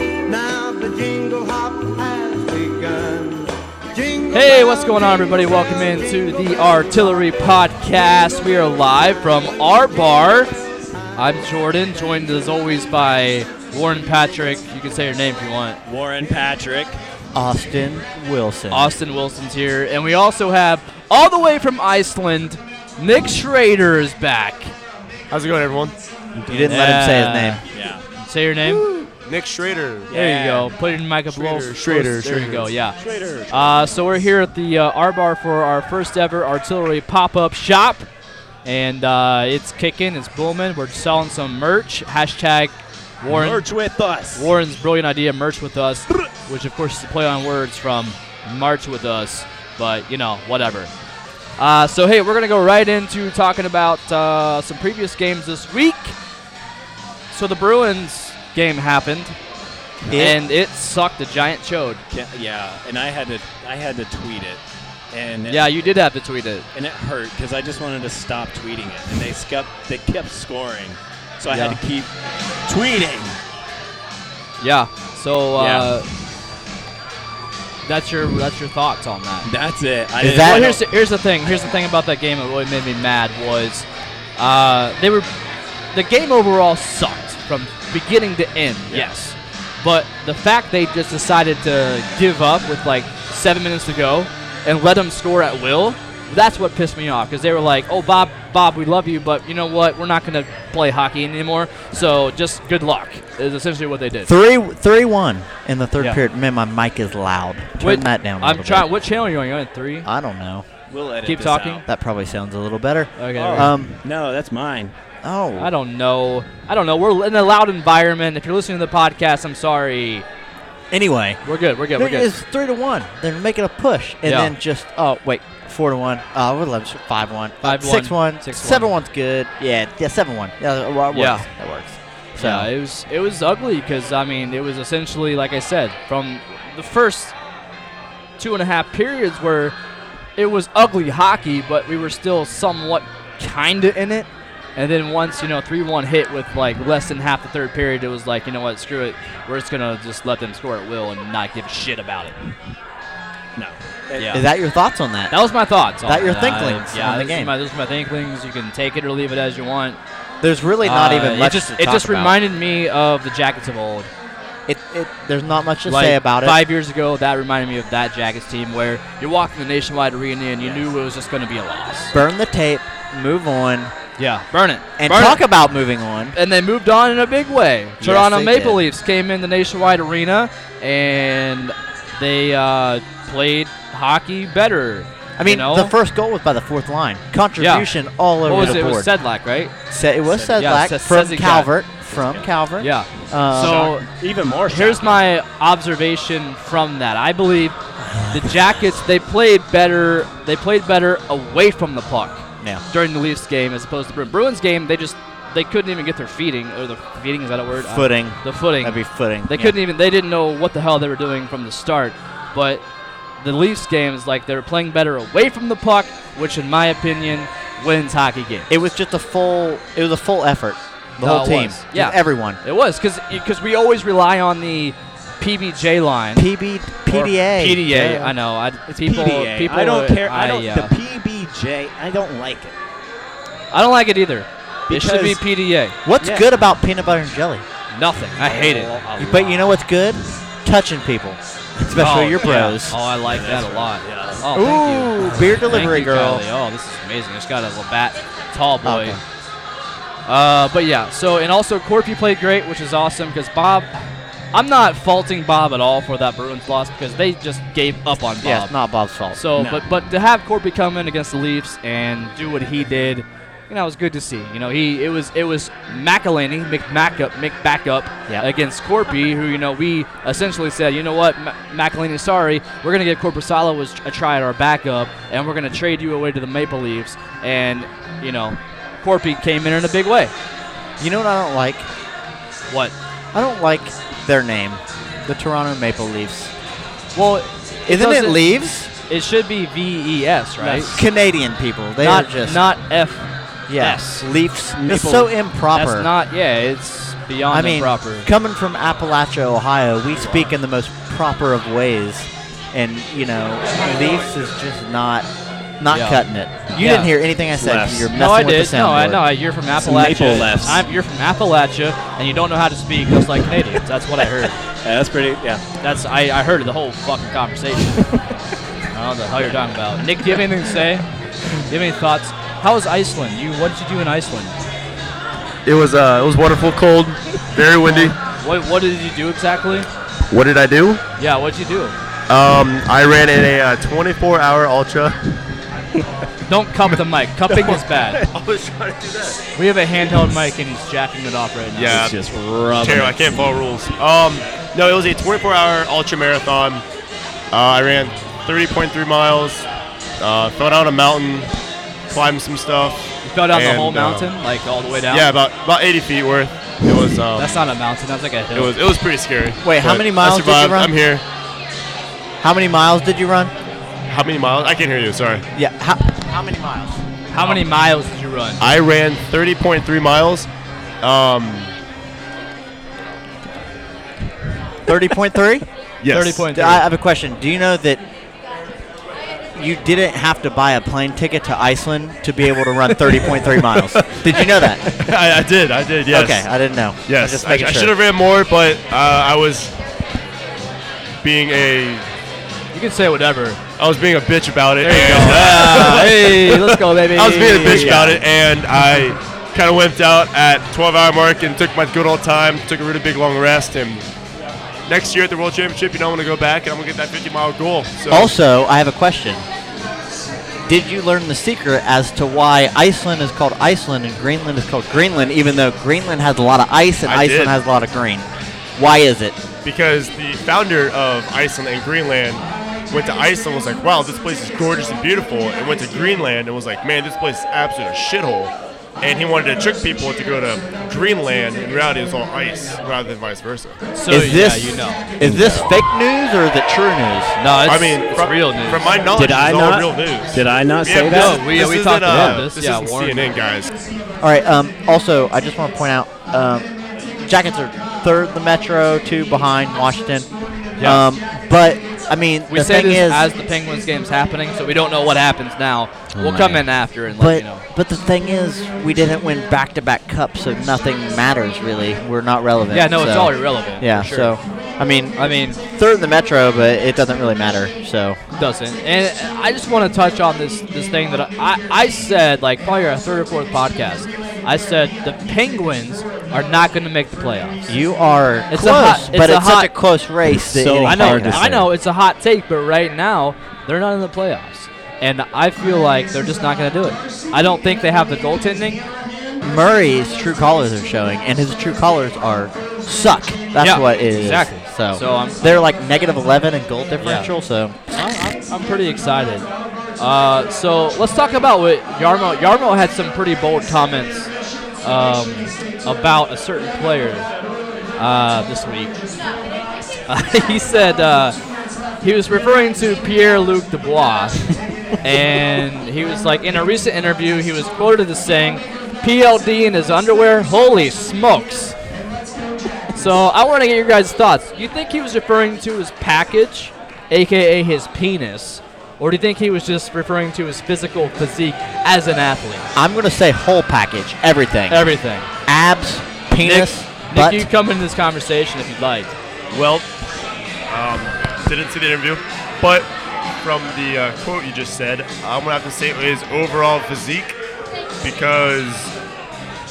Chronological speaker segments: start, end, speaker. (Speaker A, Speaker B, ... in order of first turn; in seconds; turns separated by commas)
Speaker A: 0.3-4.9, Speaker B: 4.3-10.5, Speaker B: 11.2-15.8, Speaker C: 15.9-17.0, Speaker D: 17.3-18.9, Speaker B: 18.7-24.8, Speaker E: 25.3-26.0, Speaker D: 26.4-27.6, Speaker B: 26.5-27.6, Speaker C: 27.7-28.1, Speaker B: 28.2-28.8, Speaker E: 29.2-30.1, Speaker C: 30.1-30.8, Speaker B: 30.1-38.1, Speaker E: 31.3-32.7, Speaker C: 32.3-34.0, Speaker B: 38.6-43.6, Speaker C: 43.3-44.5, Speaker B: 44.3-50.9, Speaker B: 51.6-56.1, Speaker B: 57.3-59.4, Speaker D: 60.1-60.4, Speaker B: 60.1-62.0, Speaker C: 62.1-64.6, Speaker C: 65.1-65.9, Speaker B: 65.5-66.7, Speaker C: 66.7-72.1, Speaker B: 71.5-71.8, Speaker C: 72.7-73.4, Speaker B: 74.6-76.1, Speaker C: 75.6-76.0, Speaker B: 77.8-79.5, Speaker C: 79.5-80.8, Speaker D: 80.2-80.7, Speaker B: 80.3-85.3, Speaker B: 85.9-104.3, Speaker D: 104.2-108.9, Speaker B: 107.8-110.1, Speaker D: 110.0-110.7, Speaker C: 110.9-111.8, Speaker B: 111.2-111.8, Speaker D: 111.9-114.0, Speaker B: 113.2-113.7, Speaker C: 113.3-114.9, Speaker D: 115.2-115.7, Speaker B: 115.6-120.2, Speaker D: 120.9-121.4, Speaker B: 121.4-122.3, Speaker D: 122.0-132.7, Speaker B: 124.2-124.5, Speaker B: 127.6-128.9, Speaker B: 131.1-131.5, Speaker B: 132.4-137.3, Speaker B: 138.4-139.8, Speaker B: 140.4-152.4, Speaker C: 153.6-154.4, Speaker B: 154.2-154.5, Speaker D: 154.3-155.3, Speaker B: 155.3-160.0, Speaker D: 156.1-157.5, Speaker D: 160.4-162.4, Speaker B: 160.8-164.1, Speaker D: 164.7-166.6, Speaker B: 165.9-172.1, Speaker D: 172.1-173.9, Speaker B: 174.2-175.4, Speaker D: 175.0-176.4, Speaker B: 176.3-185.9, Speaker D: 178.0-178.8, Speaker D: 185.4-189.1, Speaker B: 187.6-187.9, Speaker B: 188.4-189.7, Speaker D: 189.9-194.0, Speaker C: 190.3-190.6, Speaker B: 190.6-191.7, Speaker C: 192.1-192.4, Speaker B: 192.8-194.1, Speaker C: 193.7-195.2, Speaker B: 194.7-197.8, Speaker D: 198.1-198.5, Speaker B: 198.3-212.8, Speaker D: 207.9-209.8, Speaker B: 213.4-218.7, Speaker D: 218.7-222.6, Speaker B: 221.2-226.5, Speaker D: 226.3-227.9, Speaker B: 227.1-230.9, Speaker C: 227.6-232.8, Speaker B: 233.7-236.0, Speaker C: 234.9-235.4, Speaker D: 236.1-237.6, Speaker C: 236.2-236.5, Speaker B: 237.9-238.9, Speaker C: 238.4-239.7, Speaker D: 239.2-243.0, Speaker B: 241.9-249.2, Speaker C: 243.2-244.5, Speaker D: 244.5-246.4, Speaker D: 248.8-249.2, Speaker B: 250.3-258.7, Speaker D: 258.4-259.8, Speaker B: 259.3-280.3, Speaker D: 281.0-281.9, Speaker B: 282.7-282.9, Speaker D: 283.3-286.5, Speaker B: 287.1-288.4, Speaker D: 287.9-288.9, Speaker B: 289.1-291.0, Speaker C: 290.6-291.0, Speaker D: 290.9-292.6, Speaker B: 292.0-294.3, Speaker D: 293.7-296.1, Speaker C: 294.9-295.2, Speaker B: 294.9-298.3, Speaker D: 297.5-305.3, Speaker D: 305.8-309.3, Speaker B: 305.9-306.2, Speaker B: 306.8-307.2, Speaker C: 307.6-308.1, Speaker B: 308.1-314.6, Speaker C: 309.7-310.9, Speaker C: 314.8-315.6, Speaker B: 315.8-318.1, Speaker B: 318.9-324.5, Speaker E: 325.6-328.2, Speaker B: 327.9-329.9, Speaker E: 330.3-331.0, Speaker B: 331.2-332.0, Speaker E: 332.3-335.2, Speaker B: 336.5-338.2, Speaker C: 337.5-337.8, Speaker E: 338.3-339.4, Speaker B: 339.6-342.1, Speaker E: 341.8-342.2, Speaker C: 341.9-343.1, Speaker E: 342.8-346.8, Speaker E: 347.5-349.7, Speaker E: 350.2-351.5, Speaker E: 352.1-354.3, Speaker B: 353.2-355.3, Speaker E: 355.1-357.6, Speaker B: 357.4-358.7, Speaker E: 358.5-361.2, Speaker D: 359.6-360.9, Speaker D: 362.4-363.5, Speaker E: 364.1-365.4, Speaker D: 365.5-367.0, Speaker B: 367.3-368.6, Speaker E: 368.6-370.5, Speaker E: 371.0-371.7, Speaker D: 374.9-375.6, Speaker E: 376.0-376.5, Speaker B: 376.1-376.8, Speaker D: 376.5-378.0, Speaker D: 379.6-384.9, Speaker E: 384.6-386.5, Speaker D: 386.1-387.9, Speaker E: 387.1-389.7, Speaker E: 391.2-392.1, Speaker B: 392.7-393.6, Speaker E: 393.8-404.1, Speaker B: 394.8-398.2, Speaker D: 397.6-398.2, Speaker E: 404.9-408.3, Speaker D: 408.1-409.4, Speaker D: 410.6-419.4, Speaker E: 417.1-417.6, Speaker E: 419.6-433.8, Speaker B: 433.9-435.0, Speaker D: 434.1-437.4, Speaker C: 435.2-435.7, Speaker B: 437.4-438.8, Speaker E: 437.6-443.7, Speaker C: 439.1-441.4, Speaker B: 441.1-443.4, Speaker C: 442.1-442.4, Speaker D: 444.2-450.3, Speaker B: 450.8-451.1, Speaker D: 450.8-453.3, Speaker B: 452.5-457.6, Speaker C: 456.1-456.6, Speaker D: 457.2-468.2, Speaker B: 462.7-464.4, Speaker B: 465.2-465.6, Speaker B: 468.4-477.7, Speaker D: 477.7-481.7, Speaker B: 478.5-479.7, Speaker C: 480.4-481.7, Speaker B: 480.8-488.8, Speaker D: 489.4-497.8, Speaker B: 493.6-495.4, Speaker B: 497.0-497.3, Speaker B: 497.9-504.3, Speaker B: 504.8-507.3, Speaker B: 508.0-508.9, Speaker B: 510.1-511.4, Speaker B: 512.0-514.5, Speaker B: 515.0-521.8, Speaker B: 522.9-532.7, Speaker D: 532.8-534.9, Speaker B: 534.7-535.3, Speaker D: 535.5-537.5, Speaker B: 536.4-539.1, Speaker E: 539.5-539.9, Speaker E: 540.7-542.9, Speaker E: 543.4-547.4, Speaker E: 548.0-548.9